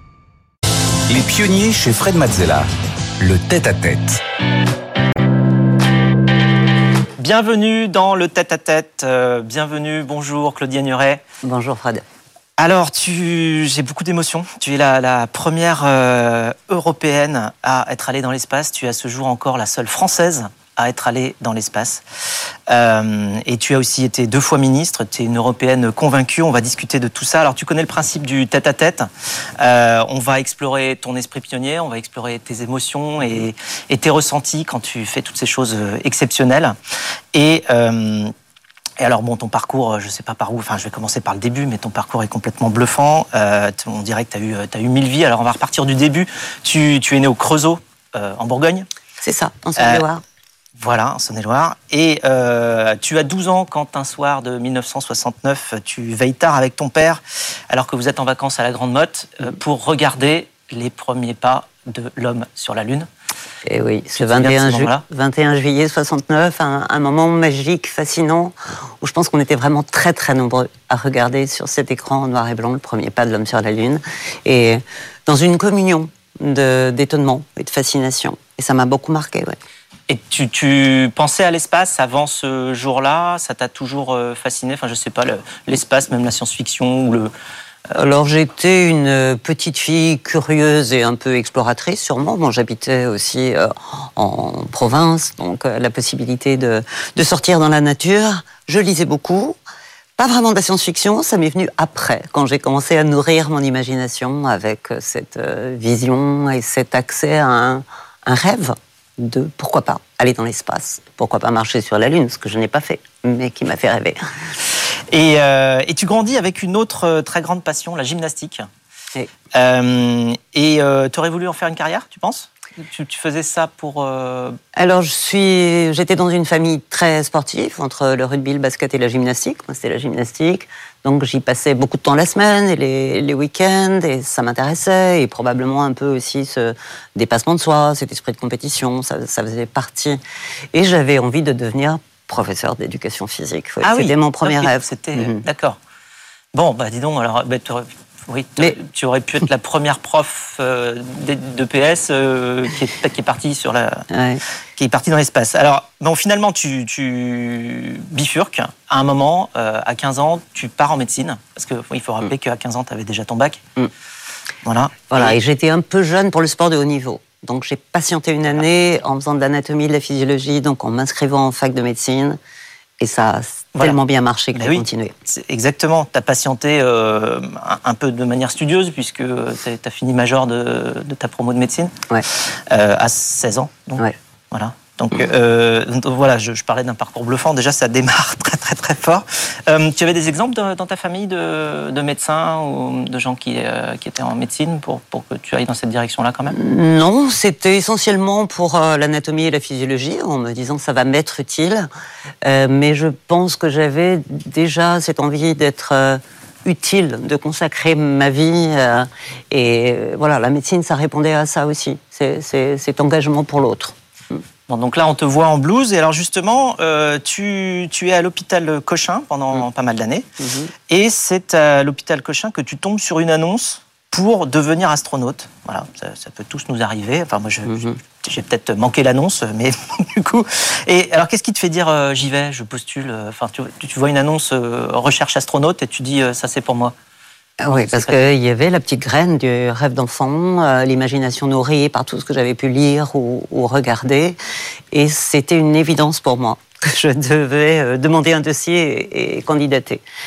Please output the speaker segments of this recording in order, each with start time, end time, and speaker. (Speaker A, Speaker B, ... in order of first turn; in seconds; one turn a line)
Speaker A: 1.1-2.7
Speaker A: 3.2-4.2
Speaker B: 7.2-11.2
Speaker C: 11.4-12.0
Speaker B: 12.6-22.0
Speaker B: 22.7-29.1
Speaker B: 29.6-36.8
Speaker B: 37.3-38.3
Speaker B: 39.0-48.9
Speaker C: 49.2-50.2
Speaker B: 49.8-50.0
Speaker B: 50.8-63.1
Speaker C: 63.6-79.6
Speaker B: 64.2-65.0
Speaker B: 80.1-87.3
Speaker C: 87.9-99.5
Speaker C: 100.2-114.2
Speaker B: 115.1-118.7
Speaker B: 119.5-124.6
Speaker C: 124.7-140.2
Speaker C: 140.7-145.4
Speaker B: 143.8-145.8
Speaker B: 146.5-154.1
Speaker C: 154.1-154.4
Speaker B: 154.8-163.6
Speaker B: 164.6-165.3
Speaker C: 165.1-172.4
Speaker C: 173.0-175.1
Speaker B: 174.5-196.6
Speaker C: 196.5-201.9
Speaker C: 202.4-213.9
Speaker B: 214.7-220.3
Speaker C: 220.4-220.7
Speaker B: 220.9-236.9
Speaker C: 227.7-228.0
Speaker C: 237.6-244.4
Speaker B: 237.7-238.2
Speaker C: 244.9-250.0